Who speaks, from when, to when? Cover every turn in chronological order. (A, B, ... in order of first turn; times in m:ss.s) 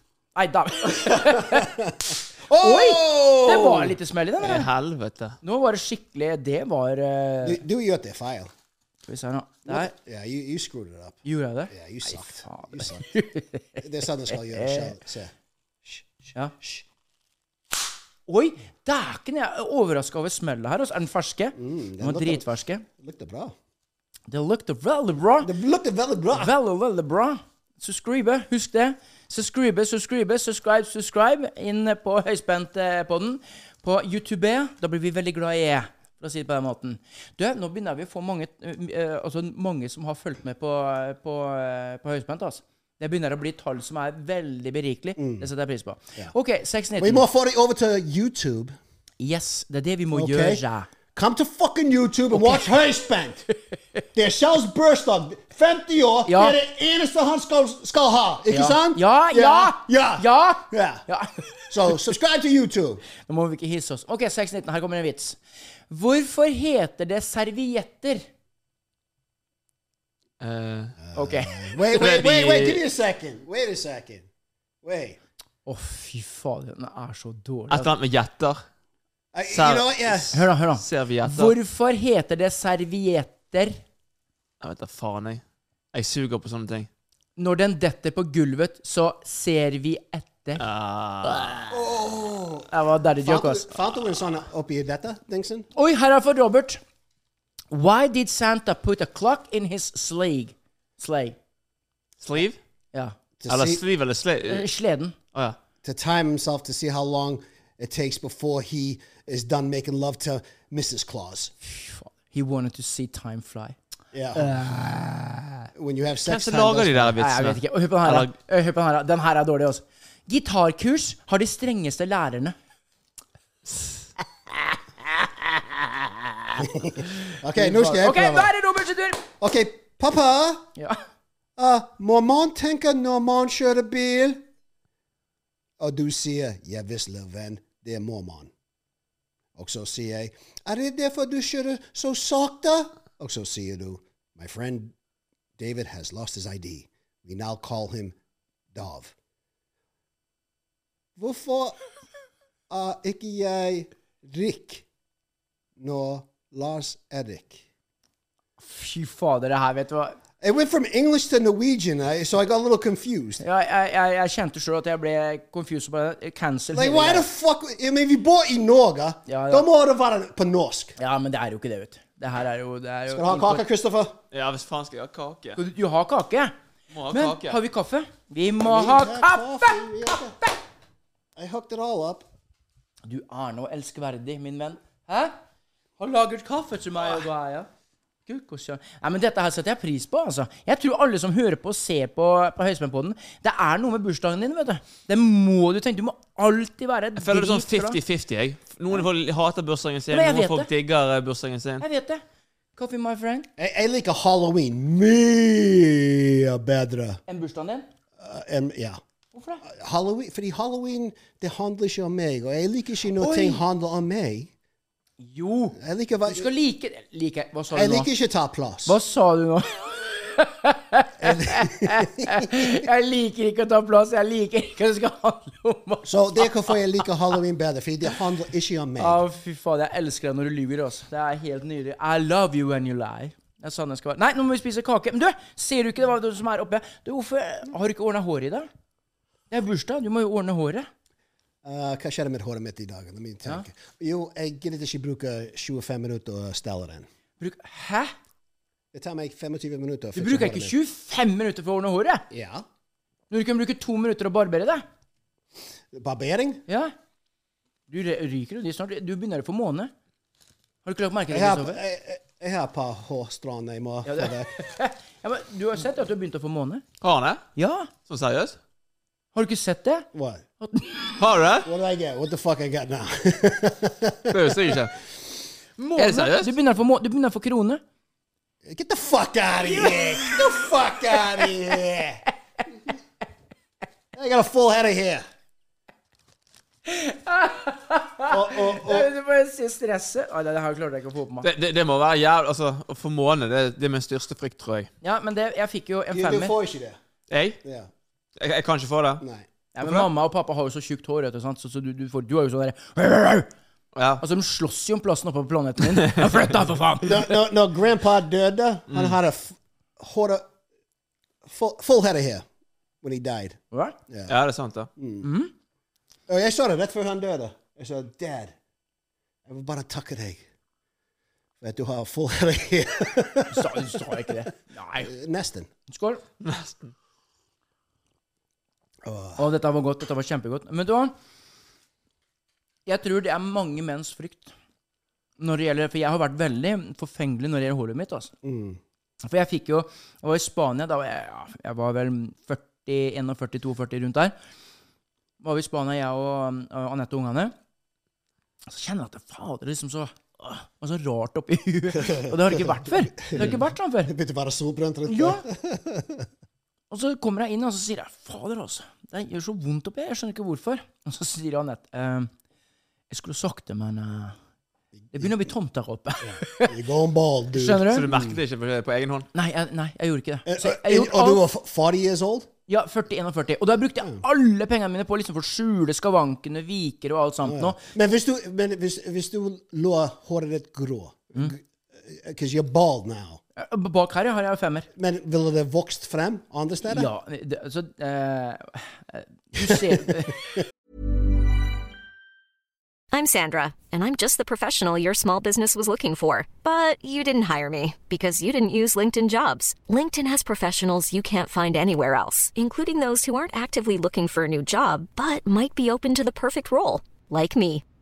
0:00.4-0:01.7 A
0:01.1-0:04.0 B
0:02.6-0:04.7 A
0:04.4-0:05.4 C
0:05.4-0:07.6 A
0:07.4-0:08.5 B
0:09.1-0:09.9 A
0:09.7-0:13.1 B
0:11.2-0:15.0 A
0:13.8-0:15.3 B
0:16.6-0:16.8 B
0:18.3-0:22.8 A
0:21.6-0:23.6 B
0:24.3-0:25.5 A
0:25.4-0:26.5 B
0:26.3-0:47.2 A
0:45.2-0:45.5 B
0:47.0-0:48.8 B
0:49.2-0:50.9 A
0:50.1-0:50.6 B
0:51.1-0:53.4 B
0:52.3-0:52.7 A
0:54.2-1:01.0 B
0:56.3-0:56.6 A
0:58.5-1:01.5 A
1:01.7-1:03.0 B
1:03.3-1:05.4 A
1:05.9-1:08.2 A
1:10.4-1:11.0 C
1:11.1-1:14.3 B
1:11.1-1:11.7 A
1:11.9-1:12.8 C
1:14.8-1:15.2 B
1:15.7-1:17.9 A
1:17.7-1:18.6 C
1:19.3-1:20.4 B
1:19.5-1:21.6 C
1:20.3-1:23.8 A
1:24.6-1:25.4 C
1:25.9-1:26.9 C
1:27.4-1:30.6 A
1:30.6-1:31.6 C
1:31.2-1:31.7 A
1:31.7-1:32.7 B
1:32.7-1:33.7 A
1:33.2-1:35.7 B
1:35.8-1:36.8 A
1:37.7-1:41.4 A
1:42.2-1:42.6 C
1:43.4-1:43.8 B
1:43.5-1:44.7 C
1:44.4-1:45.2 A
1:45.8-1:51.5 B
1:51.6-1:53.8 A
1:54.1-1:54.5 B
1:54.4-1:55.7 A
1:55.8-1:57.2 B
1:56.3-1:58.3 C
1:57.2-2:02.6 A
2:06.6-2:08.5 B
2:07.6-2:09.2 A
2:09.4-2:10.7 B
2:11.6-2:14.4 B
2:15.8-2:18.5 B
2:19.6-2:24.9 B
2:25.6-2:28.2 B
2:28.7-2:29.2 B
2:31.2-2:31.8 B
2:32.7-2:34.8 B
2:35.8-2:37.6 B
2:38.6-2:40.2 A
2:40.4-2:43.4 B
2:43.4-2:47.3 A
2:46.7-2:51.0 B
2:49.3-2:49.7 A
2:51.0-2:53.6 A
2:53.1-2:54.2 B
2:54.3-2:55.6 C
2:55.6-2:56.5 A
2:56.9-2:57.6 C
2:57.1-3:00.5 A
2:58.6-3:00.4 B
3:01.4-3:02.3 B
3:03.1-3:05.4 A
3:06.0-3:07.7 A
3:08.3-3:18.0 A
3:17.2-3:21.8 C
3:20.1-3:20.7 A
3:21.8-3:22.2 A
3:22.8-3:23.5 A
3:23.6-3:27.2 B
3:27.3-3:27.9 A
3:28.2-3:29.0 B
3:29.3-3:29.6 A
3:29.6-3:34.5 B
3:33.2-3:33.6 A
3:35.2-3:38.1 A
3:35.8-3:36.5 B
3:37.7-3:39.0 B
3:38.8-3:46.8 A
3:41.2-3:42.7 B
3:46.0-3:49.2 B
3:49.0-3:58.7 A
3:59.5-4:00.9 A
4:01.6-4:07.1 B
4:07.4-4:08.1 A
4:08.9-4:10.8 B
4:10.2-4:12.2 A
4:12.3-4:12.6 B
4:13.3-4:14.8 A
4:15.9-4:16.6 B
4:16.7-4:16.9 A
4:17.9-4:19.9 A
4:20.8-4:21.8 A
4:21.3-4:24.6 B
4:24.1-4:26.8 A
4:27.0-4:27.4 C
4:27.6-4:27.9 A
4:28.1-4:28.6 C
4:29.4-4:30.1 A
4:30.1-4:30.4 B
4:30.6-4:31.2 A
4:31.2-4:31.7 C
4:31.6-4:34.8 B
4:34.3-4:34.9 C
4:35.8-4:37.8 A
4:36.0-4:36.5 C
4:38.6-4:42.2 B
4:39.6-4:41.5 A
4:44.1-4:45.2 B
4:46.9-4:51.5 A
4:48.3-4:49.1 B
4:51.4-4:54.9 C
4:55.0-4:56.6 A
4:56.1-4:57.0 B
4:57.3-4:57.6 C
4:57.6-4:57.9 B
4:58.4-4:59.2 C
4:59.2-4:59.5 B
4:59.8-5:03.5 A
4:59.8-5:00.1 C
5:04.0-5:04.2 C
5:04.2-5:07.4 A
5:07.0-5:10.5 B
5:11.4-5:12.4 B
5:13.0-5:14.4 B
5:14.3-5:14.9 C
5:15.0-5:15.3 B
5:15.2-5:15.5 A
5:16.3-5:18.5 B
5:19.5-5:20.4 B
5:21.6-5:24.2 B
5:23.5-5:25.1 A
5:25.0-5:25.7 B
5:25.9-5:26.2 A
5:26.4-5:26.9 C
5:29.0-5:29.4 B
5:29.4-5:31.1 A
5:32.9-5:34.5 A
5:35.4-5:38.3 A
5:38.4-5:38.8 B
5:39.2-5:44.3 A
5:45.4-5:47.5 A
5:48.7-5:54.1 A
5:52.0-5:56.3 B
5:55.1-5:55.4 A
5:56.9-6:02.3 A
6:03.1-6:04.4 A
6:05.1-6:05.5 B
6:05.1-6:06.8 A
6:06.2-6:08.4 B
6:07.5-6:08.1 A
6:07.9-6:09.3 C
6:09.3-6:11.4 A
6:10.5-6:12.5 B
6:12.7-6:17.8 A
6:17.4-6:23.4 B
6:23.6-6:24.9 A
6:25.0-6:27.1 B
6:26.8-6:30.4 A
6:29.6-6:30.0 B
6:33.1-6:47.8 D